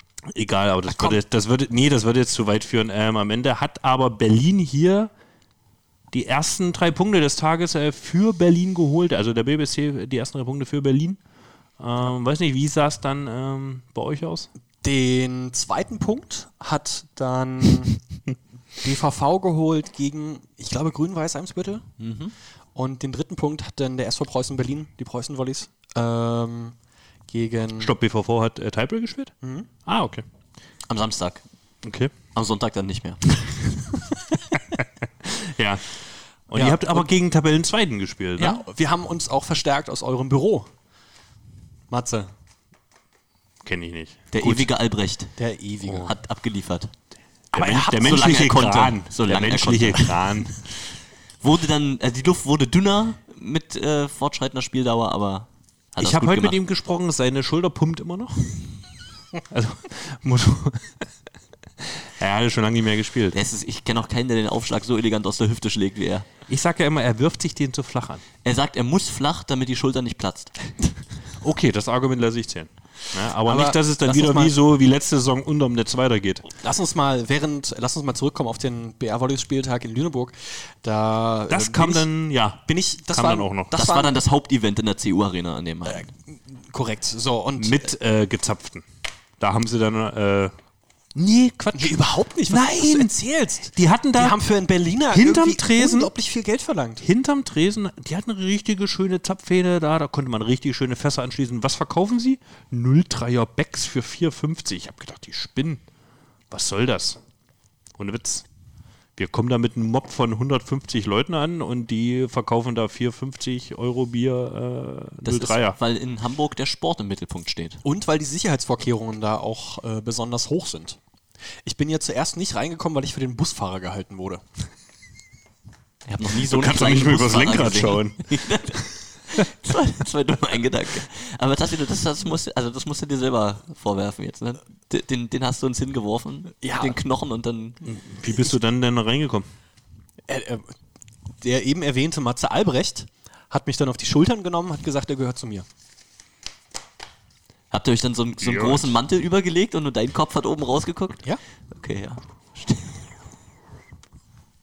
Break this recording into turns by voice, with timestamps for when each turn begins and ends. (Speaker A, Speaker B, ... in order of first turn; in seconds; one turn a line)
Speaker A: 0.3-5.1
Speaker B: 0.9-1.2
Speaker A: 6.1-11.2
Speaker A: 11.8-14.5
Speaker B: 14.8-18.0
Speaker B: 18.8-21.9
Speaker C: 22.0-22.3
Speaker B: 22.7-26.8
Speaker B: 27.3-27.9
Speaker A: 27.8-29.3
Speaker B: 29.4-29.7
Speaker A: 29.9-30.2
Speaker C: 30.9-31.4
Speaker A: 31.8-32.1
Speaker C: 32.3-33.6
Speaker A: 35.2-36.0
Speaker A: 36.5-38.6
Speaker B: 36.5-37.1
Speaker B: 38.4-40.7
Speaker B: 41.9-42.3
Speaker A: 43.6-44.7
Speaker C: 44.3-45.4
Speaker B: 45.4-46.1
Speaker A: 45.9-46.1
Speaker C: 46.0-46.9
Speaker B: 47.5-48.5
Speaker A: 47.5-50.5
Speaker C: 48.0-50.2
Speaker C: 51.4-56.6
Speaker A: 56.0-58.7
Speaker A: 59.5-61.0
Speaker A: 62.2-63.4
Speaker C: 63.3-66.2
Speaker A: 66.5-68.2
Speaker C: 68.4-70.5
Speaker A: 71.4-76.5
Speaker B: 73.5-74.5
Speaker B: 76.5-84.2
Speaker A: 81.5-83.7
Speaker C: 83.7-86.1
Speaker B: 85.9-87.9
Speaker A: 87.6-88.8
Speaker A: 89.4-90.5
Speaker A: 91.1-94.4
Speaker B: 91.7-97.0
Speaker A: 95.1-96.1
Speaker A: 97.0-105.8
Speaker A: 106.5-107.2
Speaker A: 108.0-108.4
Speaker A: 109.2-115.8
Speaker C: 115.2-117.8
Speaker B: 117.8-121.0
Speaker B: 121.6-124.5
Speaker C: 126.1-137.8
Speaker A: 126.5-128.8
Speaker B: 136.6-137.0
Speaker A: 137.8-139.5
Speaker B: 140.3-140.8
Speaker B: 141.4-145.7
Speaker C: 147.7-153.1
Speaker A: 148.4-148.9